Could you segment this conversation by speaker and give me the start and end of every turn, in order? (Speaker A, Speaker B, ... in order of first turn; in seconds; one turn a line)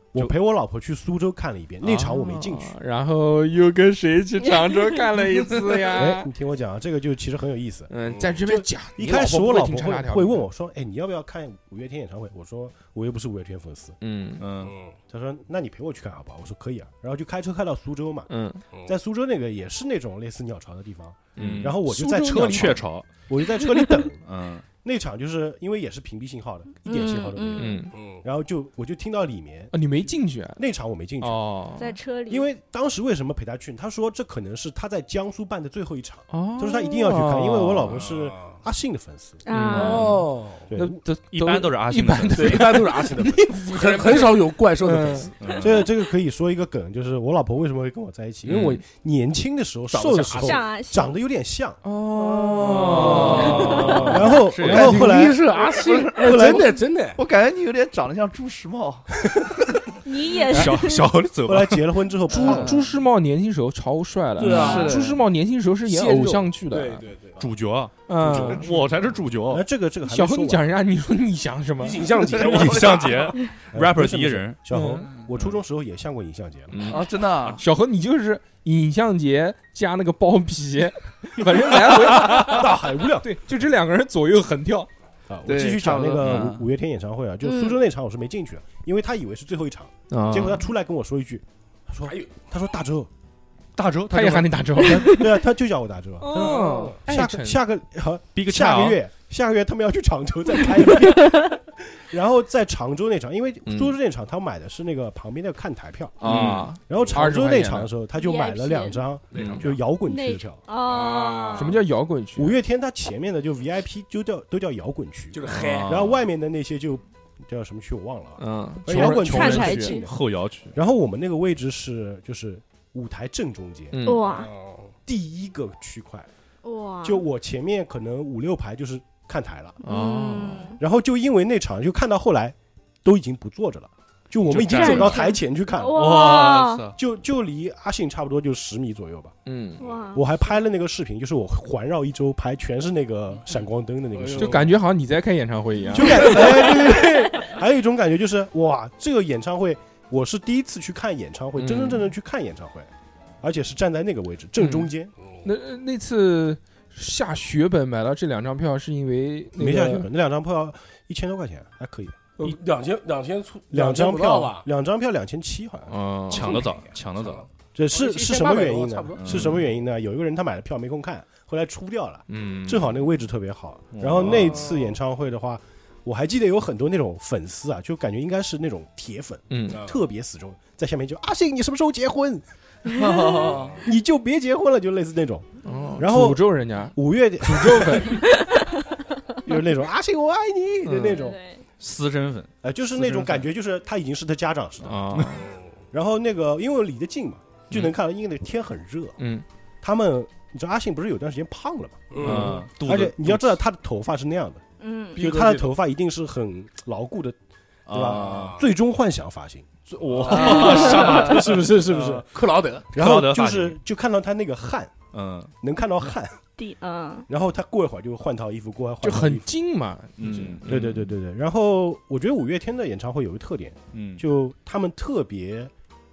Speaker A: 0.1-2.7
Speaker B: 1.8-6.3
Speaker A: 5.9-14.0
Speaker B: 7.9-10.4
Speaker C: 8.1-8.3
Speaker B: 14.0-14.4
Speaker D: 14.4-14.7
Speaker C: 14.6-14.9
Speaker A: 15.1-18.3
Speaker B: 18.3-18.6
Speaker A: 18.8-24.2
Speaker B: 21.4-22.8
Speaker D: 21.4-23.1
Speaker D: 24.2-24.6
Speaker A: 24.8-31.4
Speaker E: 26.9-27.9
Speaker B: 27.6-27.9
Speaker C: 27.9-28.2
Speaker B: 29.7-30.6
Speaker B: 31.2-32.0
Speaker E: 31.8-32.5
Speaker A: 32.3-39.4
Speaker B: 36.3-38.0
Speaker C: 37.9-38.6
Speaker E: 39.4-40.1
Speaker B: 39.5-45.3
Speaker C: 39.8-40.7
Speaker A: 40.7-41.0
Speaker D: 41.3-42.8
Speaker C: 42.3-45.7
Speaker D: 45.4-45.9
Speaker A: 45.6-51.8
Speaker D: 48.4-48.8
Speaker C: 49.9-50.6
Speaker E: 50.4-51.1
Speaker B: 51.8-54.2
Speaker C: 52.2-57.2
Speaker D: 52.8-55.1
Speaker A: 52.9-55.4
Speaker E: 53.6-54.0
Speaker F: 55.6-56.4
Speaker A: 56.2-56.8
Speaker F: 57.1-59.1
Speaker E: 60.0-61.1
Speaker D: 60.5-61.9
Speaker A: 61.4-62.8
Speaker F: 62.3-62.8
Speaker B: 62.3-67.0
Speaker C: 64.4-64.9
Speaker F: 64.4-65.2
Speaker C: 65.8-67.4
Speaker D: 67.4-69.6
Speaker B: 68.1-68.6
Speaker A: 68.2-68.8
Speaker A: 69.5-70.7
Speaker B: 70.0-72.1
Speaker C: 71.8-73.3
Speaker D: 72.3-74.6
Speaker A: 72.4-73.1
Speaker A: 73.7-76.8
Speaker B: 74.7-75.1
Speaker B: 76.7-77.0
Speaker F: 76.8-77.6
Speaker B: 77.6-84.9
Speaker A: 81.9-83.3
Speaker A: 85.3-93.1
Speaker F: 85.5-86.6
Speaker D: 86.2-86.5
Speaker E: 87.4-87.8
Speaker B: 90.1-90.6
Speaker C: 92.0-92.3
Speaker D: 93.8-94.9
Speaker B: 94.1-95.3
Speaker A: 94.9-110.6
Speaker B: 96.2-97.6
Speaker C: 96.3-97.0
Speaker D: 98.3-99.0
Speaker E: 101.1-101.5
Speaker B: 103.7-104.0
Speaker B: 106.2-107.9
Speaker D: 106.2-106.7
Speaker E: 108.2-109.0
Speaker B: 109.3-109.7
Speaker C: 109.3-109.7
Speaker E: 110.0-111.8
Speaker C: 110.8-111.8
Speaker B: 111.5-112.6
Speaker A: 112.3-120.1
Speaker C: 115.3-116.0
Speaker D: 115.5-116.2
Speaker B: 118.4-120.0
Speaker E: 118.9-120.1
Speaker D: 119.9-120.7
Speaker A: 120.7-124.0
Speaker B: 123.9-124.2
Speaker E: 124.0-124.5
Speaker C: 124.2-124.9
Speaker A: 125.0-126.3
Speaker E: 126.6-127.2
Speaker A: 127.0-129.8
Speaker E: 129.8-130.8
Speaker B: 129.8-130.7
Speaker A: 130.8-136.4
Speaker D: 134.5-135.3
Speaker E: 134.6-136.9
Speaker D: 135.9-136.9
Speaker A: 136.9-139.3
Speaker B: 139.4-139.8
Speaker E: 139.8-140.3
Speaker A: 140.1-144.7
Speaker C: 144.2-144.6
Speaker B: 144.3-146.8
Speaker A: 145.9-152.9
Speaker B: 151.6-152.1
Speaker A: 153.4-155.1
Speaker B: 154.6-154.9
Speaker B: 155.4-160.1
Speaker A: 159.6-162.3
Speaker C: 162.4-164.6
Speaker A: 163.7-165.9
Speaker B: 165.9-166.6
Speaker D: 166.3-167.4
Speaker C: 166.3-169.5
Speaker A: 167.7-188.2
Speaker D: 169.2-169.6
Speaker B: 172.3-172.9
Speaker D: 173.9-174.6
Speaker C: 174.2-175.0
Speaker B: 179.5-179.8
Speaker C: 179.7-180.0
Speaker E: 182.9-183.5
Speaker C: 183.4-183.8
Speaker B: 185.6-188.2
Speaker E: 188.2-188.8
Speaker A: 189.4-191.4
Speaker B: 190.8-191.2
Speaker E: 191.0-191.6
Speaker D: 191.8-192.5
Speaker A: 192.6-195.2
Speaker B: 192.9-193.4
Speaker B: 194.8-195.5
Speaker C: 195.4-195.7
Speaker A: 195.9-199.2
Speaker B: 199.2-199.4
Speaker A: 199.8-204.6
Speaker C: 202.1-202.5
Speaker D: 202.2-203.6
Speaker B: 202.2-202.6
Speaker E: 204.8-205.2
Speaker C: 205.1-205.7
Speaker A: 205.1-207.3
Speaker D: 207.9-208.6
Speaker A: 207.9-212.3
Speaker C: 208.0-208.6
Speaker D: 209.9-212.2
Speaker C: 210.2-212.9
Speaker E: 210.6-210.8
Speaker A: 212.9-215.0
Speaker D: 212.9-213.8
Speaker D: 215.1-215.5
Speaker A: 215.6-216.4
Speaker E: 216.6-217.3
Speaker A: 217.3-219.5
Speaker B: 219.0-221.1
Speaker D: 220.2-220.6
Speaker A: 220.7-225.7
Speaker D: 223.9-224.2